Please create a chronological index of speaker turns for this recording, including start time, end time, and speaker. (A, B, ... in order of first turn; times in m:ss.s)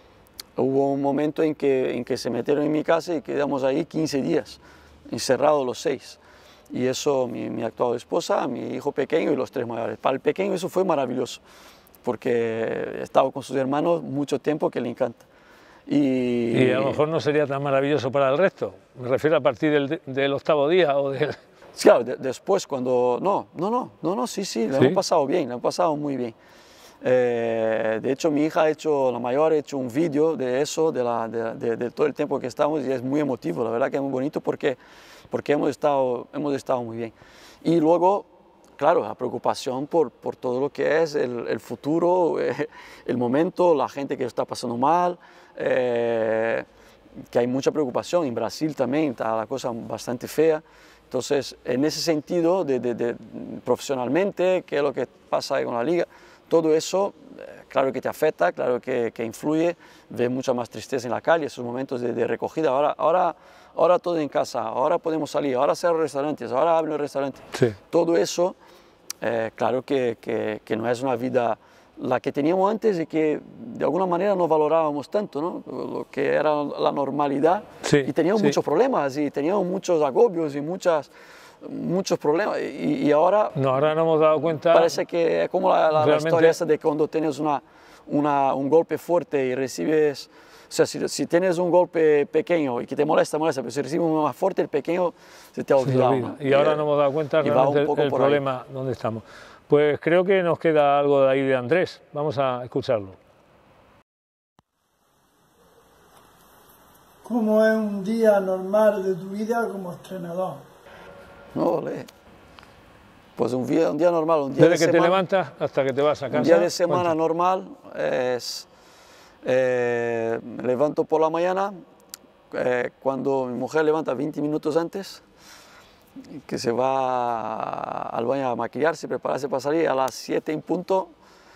0:00.6-0:11.4 A
0:12.0-0:15.2 A
0:15.9-0:17.0 A
0:16.5-0:21.4 B
0:21.8-0:26.3 A
0:27.0-0:34.8 A
0:35.3-0:37.1 A
0:37.6-0:46.6 A
0:47.3-1:08.6 A
1:09.2-1:21.1 A
1:17.8-1:18.5 B
1:21.6-1:23.6 A
1:23.6-1:24.9 B
1:24.7-1:36.8 A
1:26.0-1:26.6 B
1:35.8-1:43.2 B
1:37.4-1:38.4 A
1:47.2-1:50.6 C
1:51.5-1:52.1 A
1:53.4-1:55.2 A
1:54.6-1:57.1 B
1:56.3-1:58.7 A
1:59.4-2:01.7 A
2:02.5-2:05.2 A
2:06.4-2:11.1 A